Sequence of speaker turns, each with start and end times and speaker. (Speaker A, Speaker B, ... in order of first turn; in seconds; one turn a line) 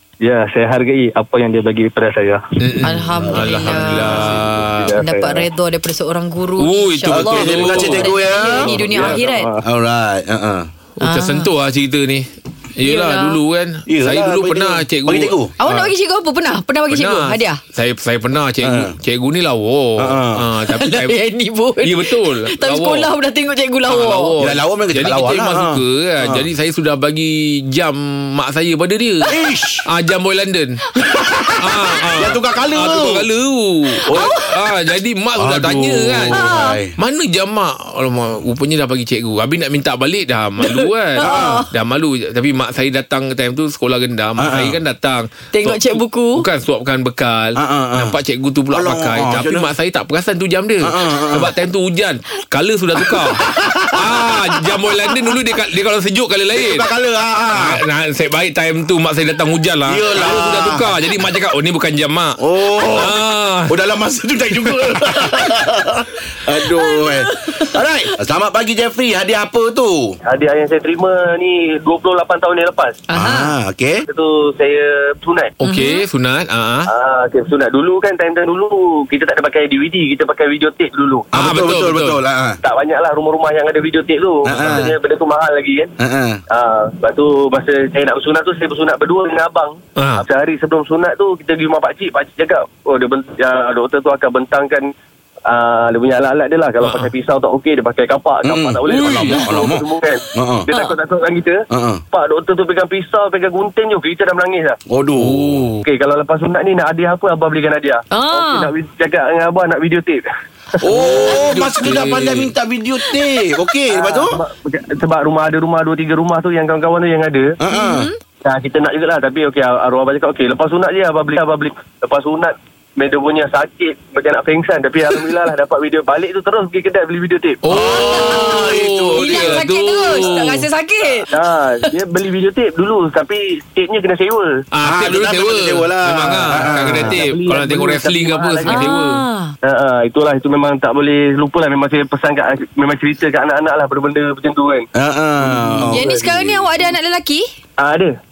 Speaker A: 0.2-2.4
Speaker B: 2.6-4.9
Speaker C: 2.8-4.3
Speaker D: 3.3-4.7
Speaker A: 4.8-5.5
Speaker C: 5.0-9.5
Speaker B: 6.6-8.1
Speaker D: 7.1-10.7
Speaker A: 8.3-9.6
Speaker B: 11.0-15.8
Speaker C: 11.0-11.5
Speaker C: 12.8-13.4
Speaker D: 13.9-15.5
Speaker C: 15.6-17.6
Speaker B: 16.9-21.1
Speaker D: 18.6-18.9
Speaker D: 20.0-20.4
Speaker C: 20.7-24.4
Speaker B: 21.8-23.1
Speaker B: 23.9-29.3
Speaker D: 24.4-26.5
Speaker D: 29.2-29.9
Speaker B: 29.9-30.8
Speaker D: 31.1-33.3
Speaker B: 31.6-36.4
Speaker D: 34.1-34.3
Speaker C: 34.1-34.5
Speaker D: 35.4-37.0
Speaker C: 36.3-36.8
Speaker B: 37.0-56.9
Speaker C: 40.6-41.7
Speaker D: 41.2-41.6
Speaker D: 44.4-44.8
Speaker C: 45.5-46.4
Speaker D: 47.6-48.1
Speaker D: 48.7-49.7
Speaker D: 50.8-51.5
Speaker D: 53.0-54.8
Speaker D: 56.5-57.8
Speaker B: 57.5-63.8
Speaker D: 59.9-60.9
Speaker D: 62.4-63.2
Speaker D: 63.7-70.2
Speaker B: 64.7-65.0
Speaker C: 66.8-67.7
Speaker E: 70.3-73.0
Speaker C: 73.1-73.5
Speaker D: 73.1-74.0
Speaker E: 74.1-75.5
Speaker B: 75.6-76.9
Speaker C: 75.6-76.0
Speaker E: 76.9-81.3
Speaker D: 81.3-82.6
Speaker B: 81.3-82.2
Speaker E: 82.6-85.9
Speaker D: 84.5-84.9
Speaker B: 84.5-84.8
Speaker D: 86.0-86.4
Speaker E: 86.5-94.9
Speaker B: 90.0-90.2
Speaker E: 95.5-104.8
Speaker B: 96.8-97.1
Speaker D: 98.4-100.7
Speaker B: 98.9-99.5
Speaker D: 101.7-102.0
Speaker D: 104.9-105.7
Speaker B: 105.2-105.8
Speaker E: 105.8-110.2
Speaker C: 108.1-108.7
Speaker D: 110.8-114.4
Speaker B: 110.9-112.5
Speaker C: 111.0-111.3
Speaker E: 113.9-117.5
Speaker D: 117.6-118.1
Speaker C: 117.7-118.2
Speaker E: 118.4-127.6
Speaker B: 127.7-130.7
Speaker D: 127.7-129.6
Speaker C: 127.8-131.3
Speaker E: 131.3-134.5
Speaker B: 134.7-139.2
Speaker D: 134.8-137.2
Speaker E: 137.0-138.8
Speaker C: 138.7-139.5
Speaker E: 139.6-144.9
Speaker D: 144.9-146.3
Speaker B: 145.5-146.0
Speaker C: 145.9-147.5
Speaker E: 147.8-148.2